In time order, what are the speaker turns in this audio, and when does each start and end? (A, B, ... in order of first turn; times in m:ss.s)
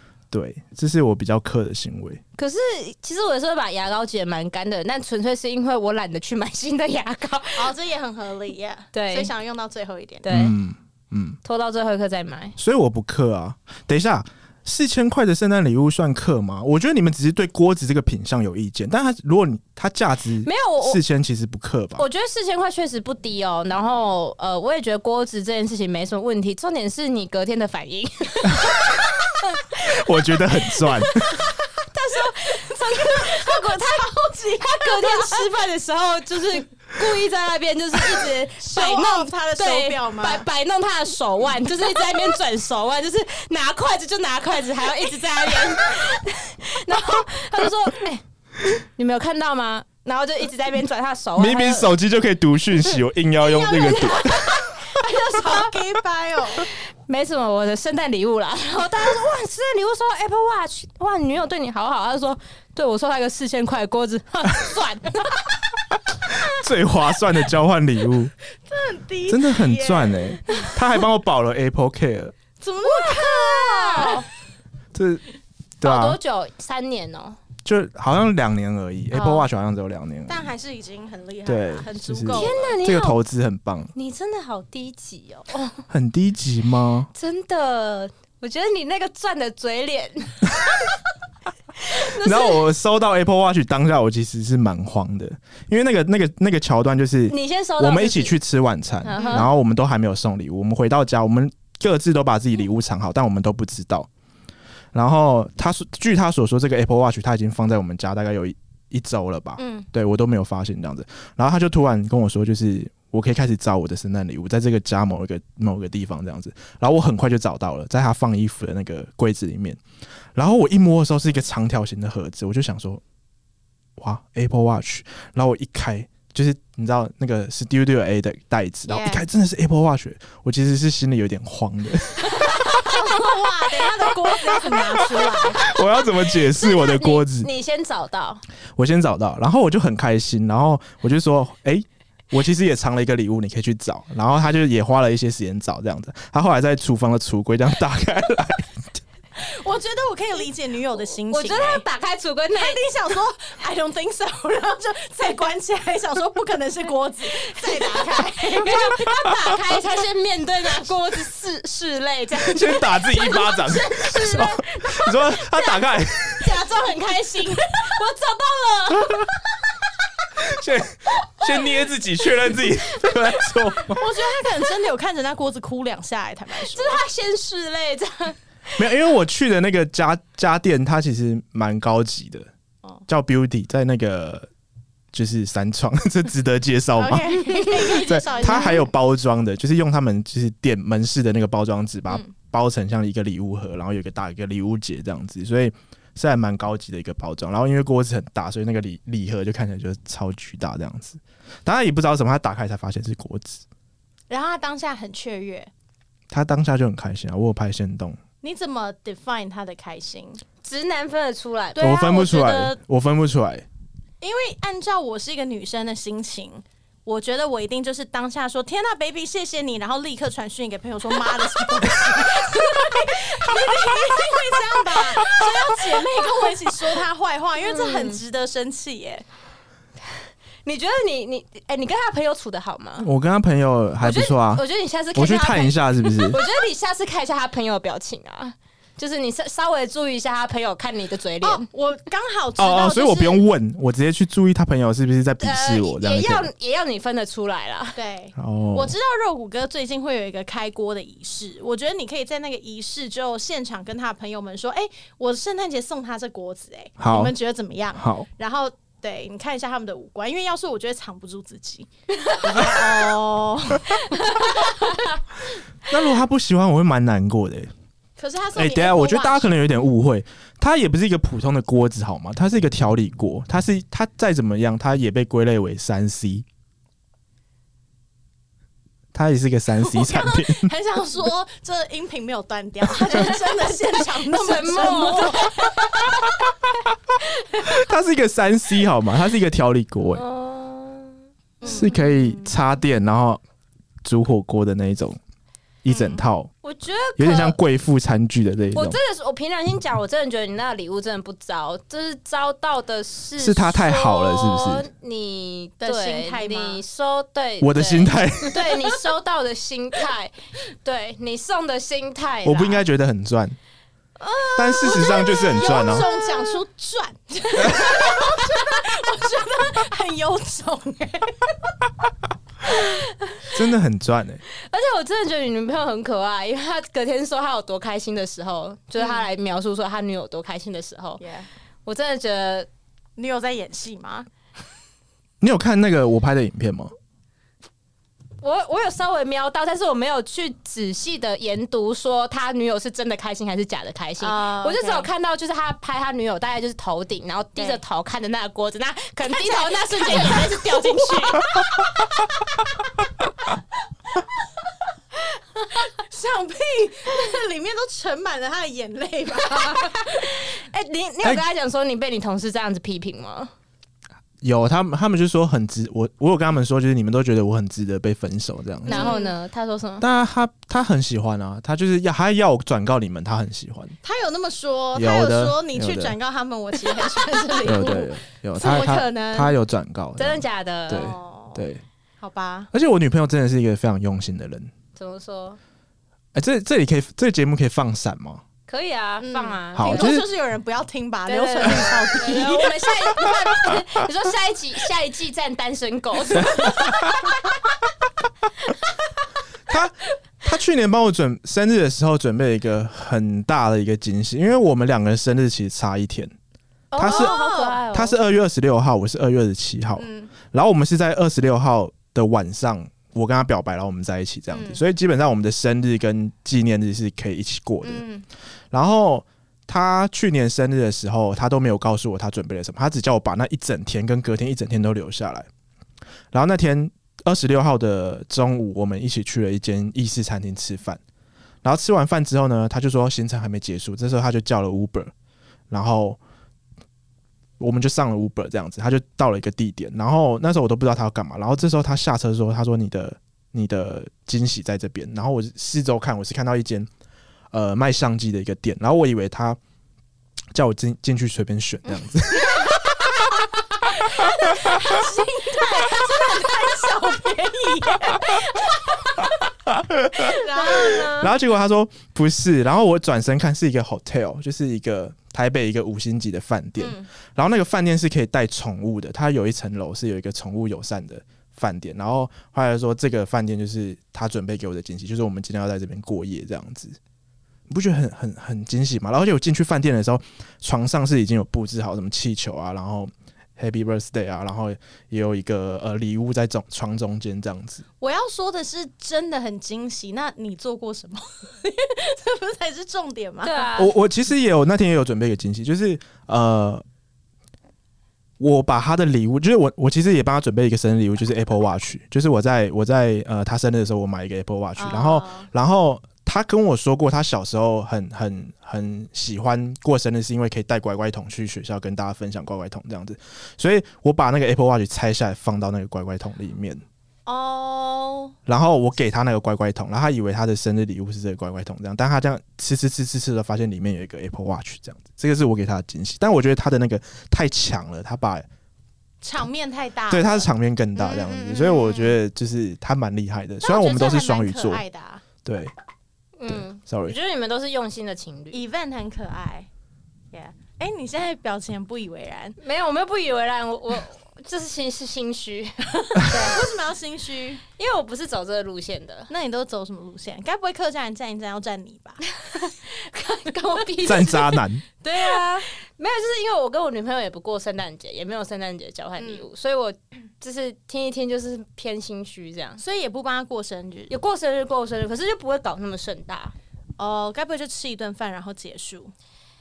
0:00.3-0:02.2 A
0:02.4-0:07.7 B
0:07.6-0:10.3 C
0:08.9-0:09.3 B
0:10.2-0:10.6 B
0:10.3-0:11.4 A
0:11.4-0:12.6 B
0:12.6-0:22.0 A
0:20.4-0:21.0 B
0:22.0-0:30.0 B
0:29.8-0:31.4 A
0:30.7-0:31.3 B
0:31.9-0:34.1 B
0:32.0-0:35.5 C
0:34.6-0:51.9 B
0:38.2-0:40.4 C
0:51.4-0:54.5 A
0:53.5-0:55.6 B
0:53.9-0:56.7 C
0:57.0-1:05.6 B
1:06.2-1:08.3 A
1:08.7-1:10.7 C
1:09.3-1:12.4 A
1:12.6-1:14.3 C
1:12.8-1:14.3 B
1:14.9-1:15.2 A
1:15.8-1:16.2 A
1:15.8-1:17.4 B
1:17.6-1:20.4 A
1:19.1-1:19.5 C
1:20.3-1:22.8 C
1:21.4-1:23.9 A
1:22.3-1:23.2 B
1:23.9-1:25.6 B
1:25.9-1:27.1 A
1:27.1-1:30.6 B
1:31.8-1:32.6 B
1:31.9-1:44.1 A
1:37.3-1:38.4 B
1:39.0-1:39.5 B
1:39.1-1:39.5 C
1:44.9-1:59.8 A
1:49.6-1:49.9 C
2:00.4-2:03.0 A
2:04.0-2:13.0 A
2:08.9-2:09.2 C
2:12.3-2:15.6 C
2:14.6-2:17.5 A
2:16.4-2:18.4 B
2:18.8-2:28.8 A
2:29.4-2:31.8 C
2:31.3-2:32.8 B
2:32.5-2:39.5 C
2:37.4-2:45.8 B
2:42.3-2:46.6 A
2:46.3-2:49.4 B
2:50.4-2:54.0 A
2:52.5-2:53.6 B
2:53.9-2:57.0 C
2:56.6-2:58.8 B
2:58.8-3:02.5 A
3:03.1-3:04.5 A
3:05.1-3:07.2 A
3:07.0-3:08.9 C
3:07.5-3:08.8 B
3:07.9-3:23.6 A
3:12.1-3:12.3 C
3:24.3-3:25.7 C
3:26.3-3:28.2 A
3:28.4-3:30.4 C
3:30.6-3:32.0 B
3:31.7-3:32.8 C
3:31.8-3:33.6 A
3:34.2-3:49.2 C
3:47.6-3:48.2 B
3:50.6-3:53.1 B
3:53.0-3:54.6 A
3:54.0-4:01.6 B
3:55.1-3:56.4 A
4:01.4-4:03.4 C
4:02.6-4:06.5 A
4:05.4-4:08.0 B
4:08.0-4:21.9 C
4:08.4-4:08.9 A
4:17.0-4:17.3 A
4:18.0-4:18.3 A
4:22.4-4:24.9 C
4:24.2-4:24.9 B
4:25.9-4:27.7 A
4:28.2-4:29.6 C
4:28.5-4:36.4 A
4:39.1-4:40.7 A
4:39.8-4:46.3 C
4:43.1-4:46.1 B
4:47.6-4:50.2 A
4:50.1-4:51.7 B
4:51.6-4:52.5 C
4:51.6-4:53.4 A
4:54.0-4:55.2 A
4:55.8-4:56.5 A
4:55.9-4:56.2 C
4:56.6-4:57.6 B
4:57.2-4:59.0 A
4:58.7-5:12.8 B
5:03.4-5:04.9 A
5:05.8-5:06.8 C
5:07.6-5:08.7 A
5:12.4-5:13.6 A
5:14.2-5:21.6 C
5:14.6-5:16.0 A
5:15.3-5:16.6 B
5:22.8-5:23.5 B
5:23.5-5:24.4 A
5:24.5-5:31.2 B
5:29.0-5:29.3 C
5:31.2-5:31.5 C
5:31.8-5:32.7 B
5:33.2-5:34.3 C
5:35.4-5:36.9 A
5:38.4-5:51.8 B
5:44.2-5:45.1 C
5:49.2-5:50.6 C
5:55.7-6:00.5 C
5:59.7-6:03.5 B
6:04.4-6:09.1 A
6:08.8-6:10.1 B
6:08.9-6:09.3 C
6:10.0-6:14.0 A
6:14.0-6:19.6 C
6:14.9-6:16.2 A
6:17.6-6:21.8 A
6:17.7-6:18.0 B
6:20.2-6:21.1 B
6:20.9-6:21.7 C
6:22.2-6:22.7 C
6:22.7-6:24.7 A
6:25.0-6:25.6 B
6:26.3-6:28.4 A
6:28.7-6:30.2 B
6:29.2-6:32.9 C
6:29.7-6:30.3 A
6:31.3-6:37.4 B
6:39.7-6:46.3 A
6:46.9-6:48.1 B
6:47.0-6:47.4 A
6:47.0-6:47.8 C
6:47.9-6:58.0 A
6:50.0-6:50.3 C
6:54.5-6:54.8 C
6:57.8-6:58.3 C
6:58.7-7:05.5 A
7:06.3-7:11.0 A
7:11.6-7:15.1 A
7:15.7-7:16.2 A
7:17.6-7:26.9 A
7:27.5-7:29.6 A
7:30.5-7:32.8 A
7:32.3-7:39.4 C
7:39.7-7:57.0 A
7:40.2-7:41.3 C
7:40.3-7:41.3 B
7:46.8-7:47.1 C
7:57.7-8:07.8 A
8:08.0-8:13.7 C
8:13.4-8:13.9 B
8:13.8-8:16.8 A
8:18.4-8:36.8 A
8:24.8-8:25.5 C
8:37.3-8:38.3 C
8:38.4-8:48.4 A
8:49.2-8:50.5 C
8:50.1-8:54.8 A
8:51.0-8:52.0 B
8:53.6-8:55.2 C
8:55.4-8:55.7 A
8:56.4-8:58.6 B
8:56.5-8:57.2 A
8:58.5-8:59.7 C
9:00.3-9:02.6 C
9:02.6-9:06.7 B
9:06.1-9:07.6 C
9:07.8-9:09.3 B
9:09.3-9:12.2 C
9:12.5-9:14.6 B
9:13.7-9:14.4 C
9:14.0-9:14.8 A
9:15.0-9:15.6 C
9:15.2-9:15.4 B
9:16.0-9:22.8 B
9:19.2-9:19.5 C
9:22.8-9:24.1 C
9:24.1-9:26.5 B
9:27.0-9:29.1 C